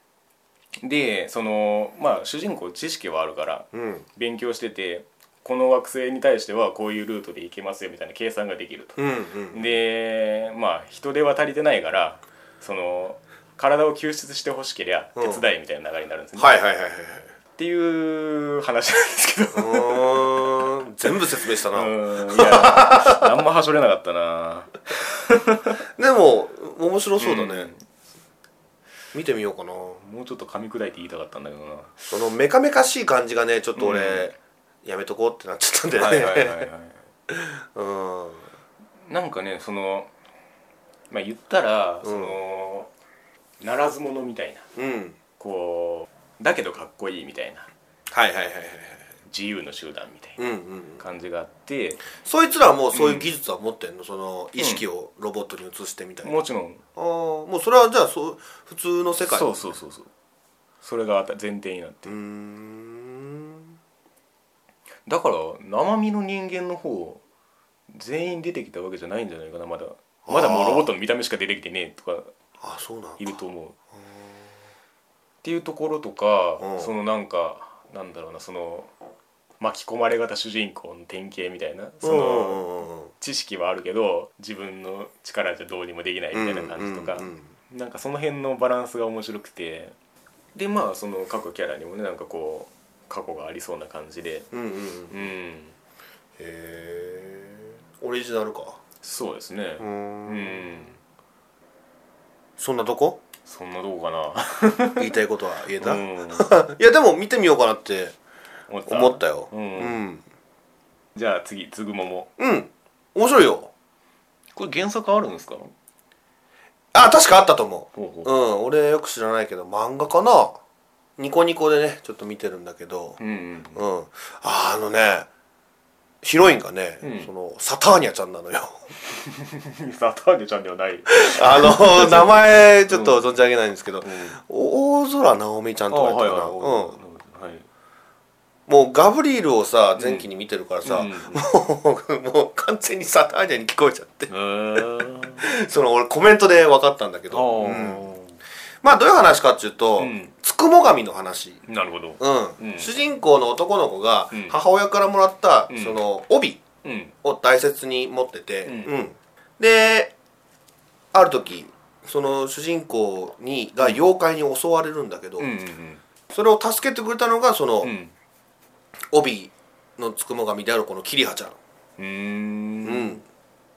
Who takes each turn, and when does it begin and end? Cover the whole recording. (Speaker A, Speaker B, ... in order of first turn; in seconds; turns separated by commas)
Speaker A: 0.8-9.0, Speaker B: 3.7-4.0, Speaker B: 9.0-9.6, Speaker A: 9.5-16.6, Speaker B: 15.2-15.4, Speaker B: 16.4-17.3, Speaker A: 17.6-20.7, Speaker B: 19.5-23.2, Speaker A: 21.7-25.8, Speaker B: 25.9-27.7, Speaker A: 27.2-27.8, Speaker B: 29.1-30.0, Speaker A: 30.0-32.1, Speaker B: 32.1-36.7, Speaker A: 33.8-34.3, Speaker A: 36.0-37.0, Speaker B: 37.3-38.5, Speaker A: 39.0-40.1, Speaker A: 41.1-42.9, Speaker B: 42.0-42.4, Speaker A: 43.6-44.7, Speaker B: 44.7-45.2, Speaker A: 45.4-47.7, Speaker B: 48.1-49.1, Speaker A: 49.2-50.4, Speaker B: 50.4-51.0, Speaker A: 51.0-52.0, Speaker B: 52.1-56.3, Speaker A: 52.9-53.3, Speaker A: 56.2-56.8, Speaker B: 57.0-59.7, Speaker A: 59.2-60.1, Speaker A: 60.8-62.1, Speaker B: 62.0-63.8, Speaker A: 65.0-67.2, Speaker A: 67.9-72.3, Speaker B: 70.3-70.9, Speaker B: 72.6-73.3, Speaker A: 73.2-73.8, Speaker B: 74.0-74.2, Speaker A: 75.4-78.9, Speaker B: 76.6-76.9, Speaker A: 79.6-89.9, Speaker B: 82.0-83.1, Speaker B: 86.3-87.5, Speaker A: 90.5-94.5, Speaker B: 94.5-95.3, Speaker A: 95.1-95.7, Speaker B: 96.4-98.8, Speaker A: 99.0-101.0, Speaker B: 99.8-100.8, Speaker B: 102.6-103.2, Speaker A: 103.5-105.1, Speaker B: 105.0-108.1, Speaker A: 105.8-106.5, Speaker A: 108.7-110.0, Speaker B: 108.9-110.2, Speaker A: 111.1-112.3, Speaker B: 112.4-113.7, Speaker A: 114.5-115.7, Speaker B: 116.9-120.6, Speaker A: 117.9-118.3, Speaker B: 121.2-123.2, Speaker A: 123.2-123.8, Speaker B: 123.7-125.3, Speaker B: 126.2-128.9, Speaker A: 127.0-127.3, Speaker A: 129.0-133.2, Speaker B: 131.1-136.9, Speaker A: 134.0-134.4, Speaker A: 135.9-137.7, Speaker B: 138.7-148.1, Speaker A: 140.0-140.2, Speaker A: 140.8-141.4, Speaker A: 144.3-145.4, Speaker A: 147.3-148.4, Speaker B: 148.8-151.6, Speaker A: 150.0-150.3, Speaker A: 151.7-152.9, Speaker B: 152.2-156.6, Speaker A: 154.3-154.6, Speaker A: 155.7-156.0, Speaker A: 156.8-157.1, Speaker B: 157.2-160.1, Speaker A: 158.6-159.0, Speaker B: 161.1-165.5, Speaker A: 165.4-166.0, Speaker B: 166.3-167.9, Speaker A: 167.8-168.1, Speaker B: 169.1-171.6, Speaker A: 172.0-173.2, Speaker B: 172.8-173.2